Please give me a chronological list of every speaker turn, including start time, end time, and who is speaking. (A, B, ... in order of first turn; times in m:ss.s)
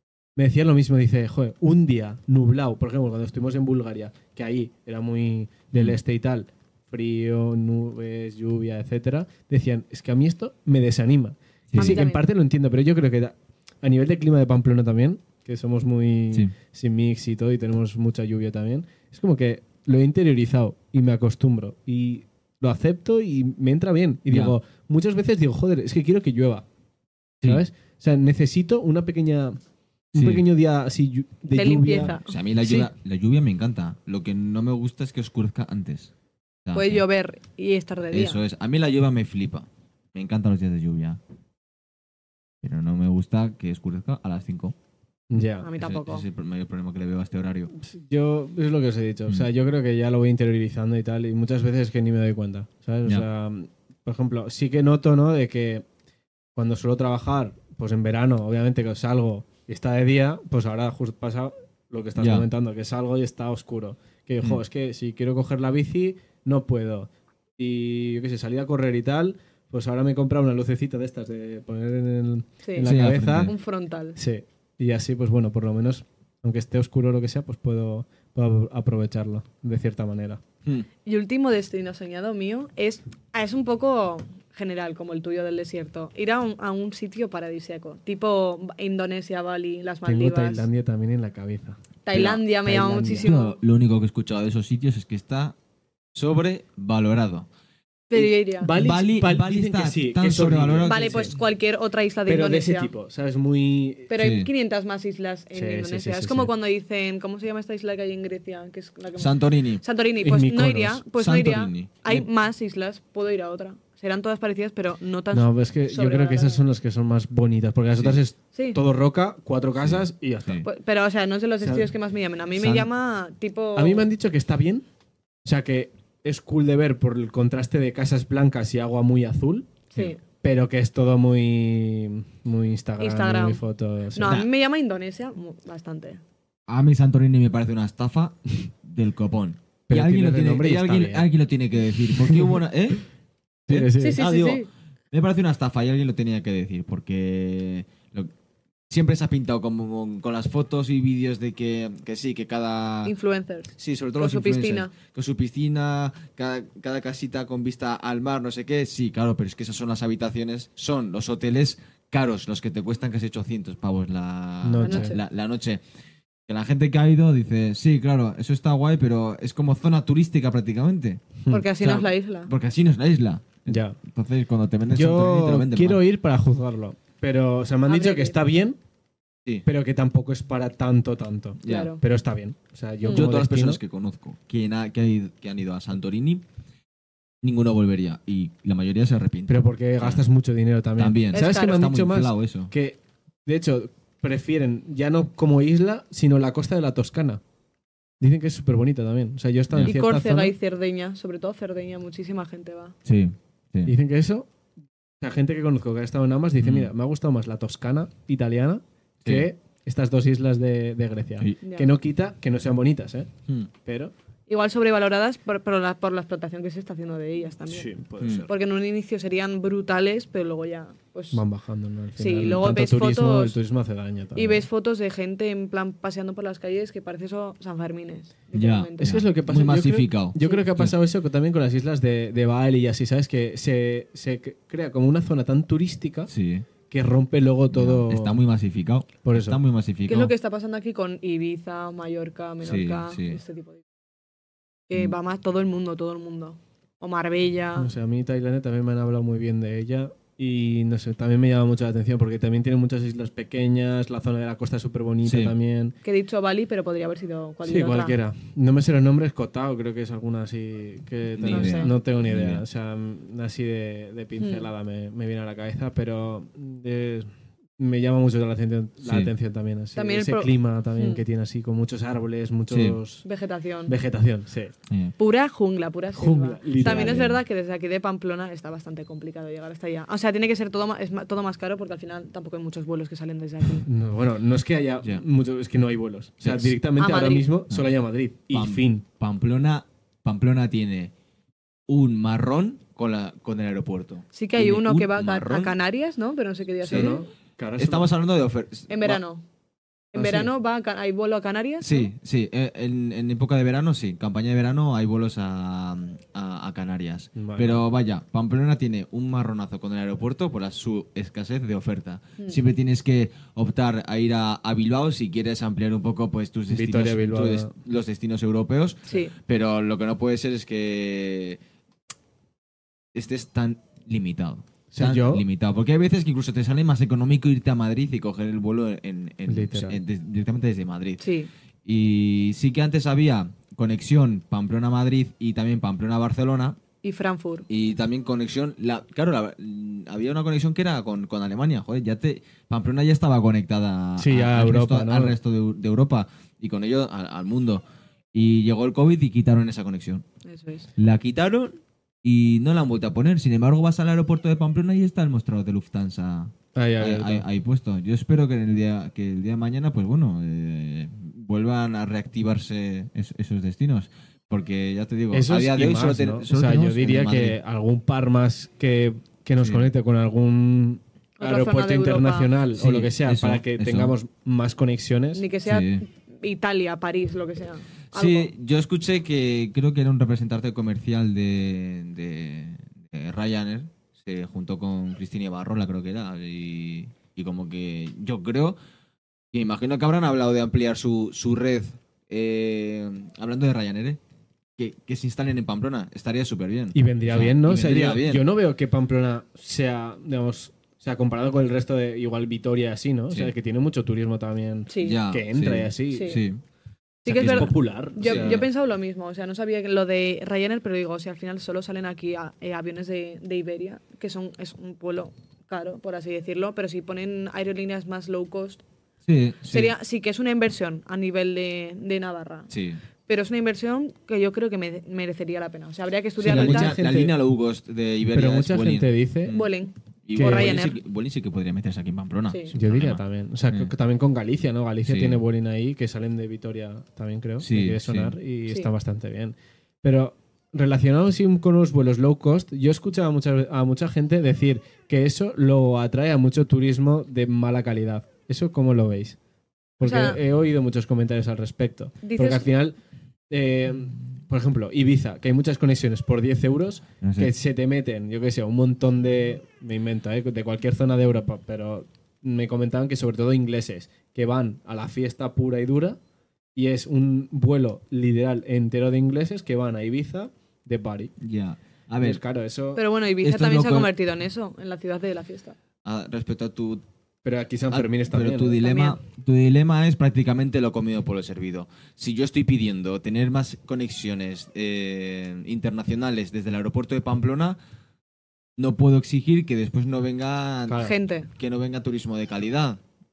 0:00.4-0:26.7 A
0:11.7-0:12.0 B
0:11.8-0:12.2 C
0:24.3-0:24.6 B
0:27.4-0:29.6 A
0:30.1-0:32.9 A
0:30.2-0:30.4 B
0:31.5-0:32.4 C
0:32.2-0:36.1 B
0:36.7-0:37.0 B
0:36.8-0:38.4 C
0:38.1-0:41.2 B
0:42.6-0:44.8 B
0:45.3-0:45.7 A
0:45.6-0:46.2 C
0:45.8-0:47.7 B
0:47.8-0:55.8 A
0:56.6-1:13.6 A
1:02.2-1:02.5 B
1:12.6-1:14.2 C
1:12.8-1:13.5 B
1:14.2-1:20.4 A
1:21.0-1:30.7 C
1:30.0-1:31.8 A
1:32.1-1:33.6 C
1:32.1-1:32.4 B
1:32.6-1:33.3 A
1:33.2-1:35.6 B
1:36.2-1:37.5 B
1:38.1-1:38.7 C
1:38.2-1:41.4 A
1:38.2-1:41.3 B
1:40.8-1:42.9 C
1:42.3-1:44.1 A
1:44.1-1:56.6 C
1:44.2-1:44.5 B
1:45.5-1:46.5 A
1:49.2-1:49.8 B
1:50.2-1:51.0 A
1:51.2-1:52.3 B
1:55.3-2:00.6 A
1:58.6-1:58.8 C
1:59.8-2:00.7 B
2:00.6-2:04.1 C
2:01.6-2:01.9 A
2:02.6-2:02.9 A
2:03.8-2:04.8 A
2:05.4-2:09.9 A
2:10.4-2:14.4 A
2:13.0-2:13.6 C
2:14.1-2:16.2 C
2:16.7-2:23.0 B
2:19.9-2:21.3 A
2:22.2-2:22.6 A
2:23.7-2:24.3 A
2:23.7-2:28.3 B
2:24.0-2:24.7 C
2:28.9-2:33.1 B
2:33.1-2:34.9 C
2:33.8-2:45.8 B
2:44.6-2:45.2 A
2:44.8-2:45.2 C
2:46.5-2:51.2 B
2:51.4-2:51.7 A
2:51.5-2:52.5 C
2:51.8-2:56.0 B
2:53.7-2:54.0 A
2:54.9-2:58.8 A
2:57.9-2:58.4 C
2:59.7-3:03.8 A
3:01.6-3:01.9 B
3:01.6-3:02.0 C
3:03.1-3:06.4 B
3:07.4-3:10.2 B
3:09.5-3:17.4 A
3:11.0-3:12.7 B
3:11.3-3:11.9 C
3:18.2-3:20.5 A
3:19.7-3:20.0 B
3:19.8-3:23.0 C
3:23.0-3:23.9 B
3:23.8-3:24.5 A
3:25.2-3:34.1 A
3:26.6-3:26.9 B
3:29.2-3:29.5 B
3:31.6-3:31.9 C
3:34.5-3:41.4 C
3:37.7-3:38.5 A
3:38.2-3:38.5 B
3:41.3-3:44.7 A
3:42.2-3:43.6 C
3:44.4-3:49.2 C
3:48.5-3:50.9 B
3:49.0-3:56.3 A
3:50.4-3:50.7 C
3:56.3-3:56.7 B
3:56.9-3:58.4 A
3:57.7-4:00.3 B
3:59.2-3:59.6 A
4:00.1-4:03.8 C
4:02.6-4:03.4 B
4:04.9-4:07.9 C
4:07.8-4:16.0 A
4:15.2-4:15.5 B
4:16.0-4:18.2 C
4:17.7-4:33.2 A
4:21.3-4:22.6 B
4:21.5-4:21.9 C
4:24.4-4:24.7 C
4:29.0-4:29.3 B
4:30.0-4:31.2 C
4:32.7-4:33.0 B
4:33.2-4:34.0 C
4:33.9-4:34.7 A
4:34.9-4:35.1 B
4:35.2-4:43.9 C
4:36.1-4:37.4 A
4:36.8-4:37.3 B
4:43.8-4:49.0 A
4:46.4-4:46.8 B
4:47.0-4:47.5 C
4:48.5-4:51.1 B
4:51.9-4:55.8 B
4:54.3-4:57.2 C
4:56.8-4:57.2 B
4:56.8-4:58.1 A
4:57.8-4:59.2 B
4:58.9-4:59.4 C
5:00.1-5:02.1 C
5:00.2-5:00.5 A
5:01.8-5:21.6 B
5:07.4-5:07.8 A
5:16.7-5:17.7 A
5:19.1-5:19.3 C
5:23.1-5:31.2 B
5:24.9-5:25.4 A
5:29.5-5:30.0 A
5:31.2-5:31.5 C
5:31.8-5:36.8 B
5:37.0-5:37.7 C
5:37.7-5:47.8 B
5:44.2-5:45.4 A
5:48.3-5:50.2 B
5:50.4-5:50.9 C
5:51.0-6:07.6 B
5:56.8-5:57.4 A
6:05.3-6:15.4 A
6:09.6-6:09.9 B
6:11.4-6:12.6 C
6:12.8-6:14.1 B
6:15.4-6:18.5 C
6:15.7-6:16.0 B
6:18.1-6:28.8 B
6:29.5-6:34.2 B
6:34.8-6:38.4 B
6:36.9-6:46.4 A
6:44.9-6:45.2 C
6:45.0-6:46.6 B
6:46.1-6:46.4 C
6:47.2-6:58.8 C
6:47.3-6:48.6 B
6:47.3-6:48.6 A
6:59.3-6:59.9 B
6:59.7-7:02.7 C
7:02.7-7:03.0 B
7:03.3-7:07.0 C
7:06.4-7:07.3 A
7:06.4-7:09.7 B
7:08.3-7:09.6 A
7:09.5-7:11.0 C
7:10.2-7:13.9 B
7:10.4-7:10.8 A
7:12.7-7:29.4 A
7:15.0-7:15.4 B
7:17.6-7:18.4 B
7:30.0-7:33.0 A
7:30.0-7:30.4 C
7:32.2-7:32.7 C
7:33.5-7:46.2 A
7:37.2-7:37.5 B
7:46.8-7:51.3 A
7:51.4-7:52.4 B
7:52.2-7:53.0 A
7:53.0-7:55.8 C
7:53.4-7:54.1 B
7:56.0-7:57.0 B
7:57.4-7:58.8 A
7:57.9-8:07.8 B
7:58.8-7:59.2 C
8:08.8-8:13.0 B
8:10.9-8:11.1 A
8:10.9-8:11.5 C